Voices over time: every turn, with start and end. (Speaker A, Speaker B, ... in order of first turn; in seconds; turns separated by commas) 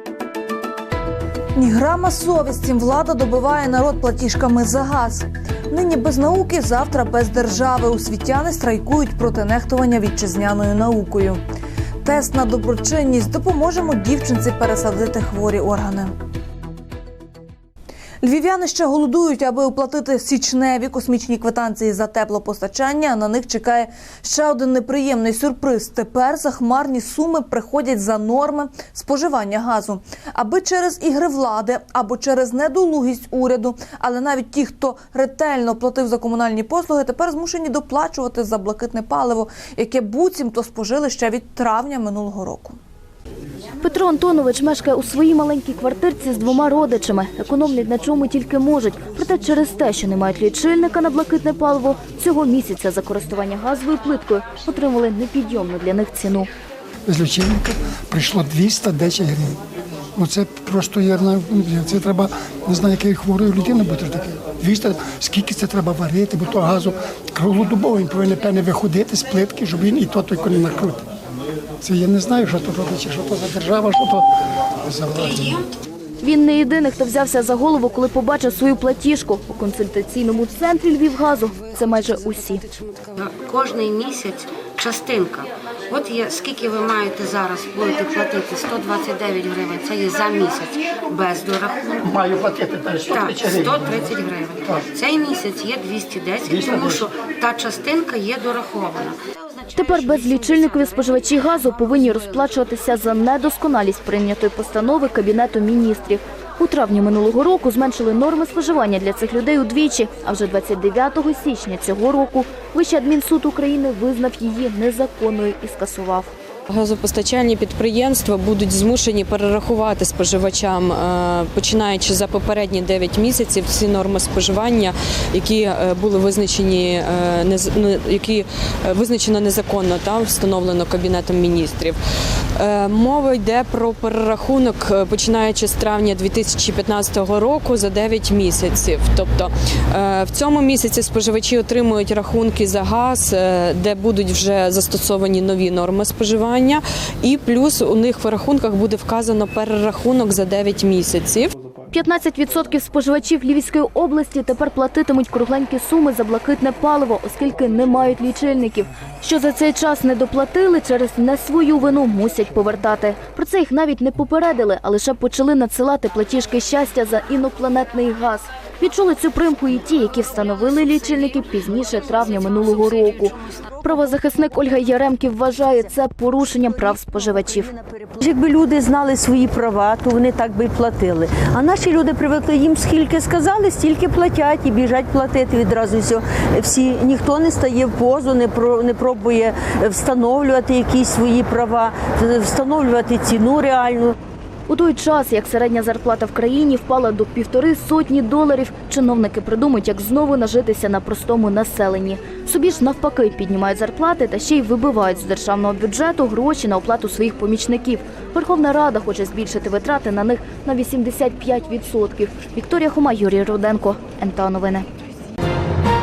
Speaker A: 1.6-11.4, Speaker A: 12.0-16.1, Speaker A: 18.2-42.8, Speaker B: 43.8-56.5, Speaker C: 57.1-59.6, Speaker C: 60.1-71.0, Speaker C: 71.8-74.2, Speaker C: 74.8-75.6, Speaker B: 76.2-82.6, Speaker D: 83.2-92.2, Speaker C: 92.2-93.8, Speaker D: 93.0-99.2, Speaker B: 99.8-116.3, Speaker E: 116.7-132.0, Speaker E: 132.6-151.5, Speaker B: 151.9-177.7, Speaker F: 178.1-194.1, Speaker B: 194.7-214.8